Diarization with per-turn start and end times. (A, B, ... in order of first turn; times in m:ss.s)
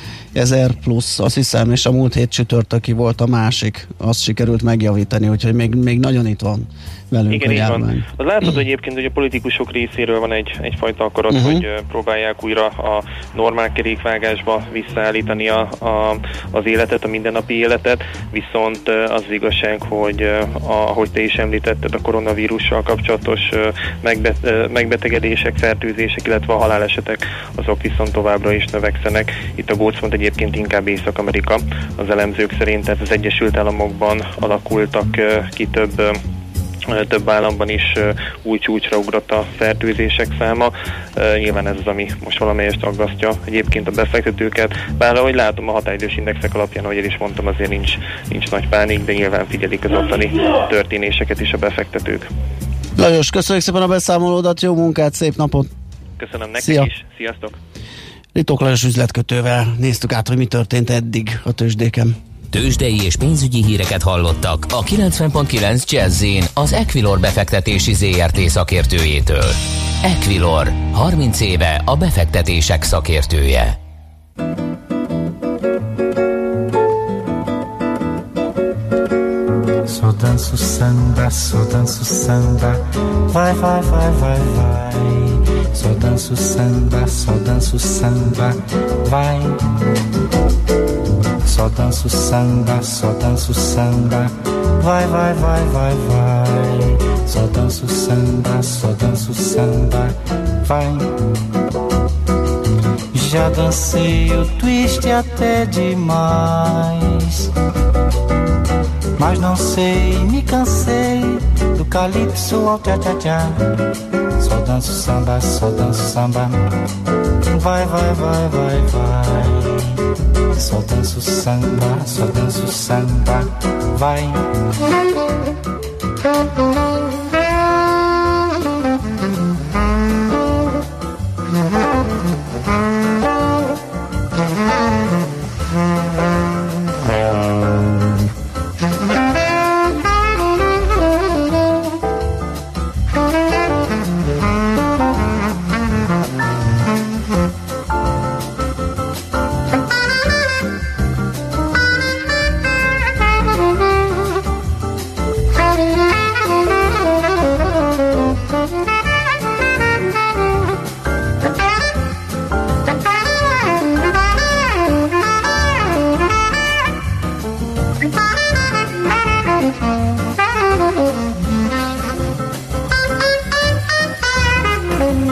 0:00.3-0:08.0 A
0:07.3-0:36.2 B
0:11.3-0:11.6 A
0:36.9-0:52.3 B
0:53.0-0:55.7 A
0:56.2-0:57.6 B
0:56.6-0:56.9 A
0:58.4-1:02.2 A
1:02.5-1:13.8 C
1:19.9-1:29.6 D
1:31.4-1:41.2 D
1:43.1-1:47.5 D
1:49.2-1:53.8 D
1:54.4-1:56.7 D
1:57.5-2:00.0 D
2:00.6-2:04.5 D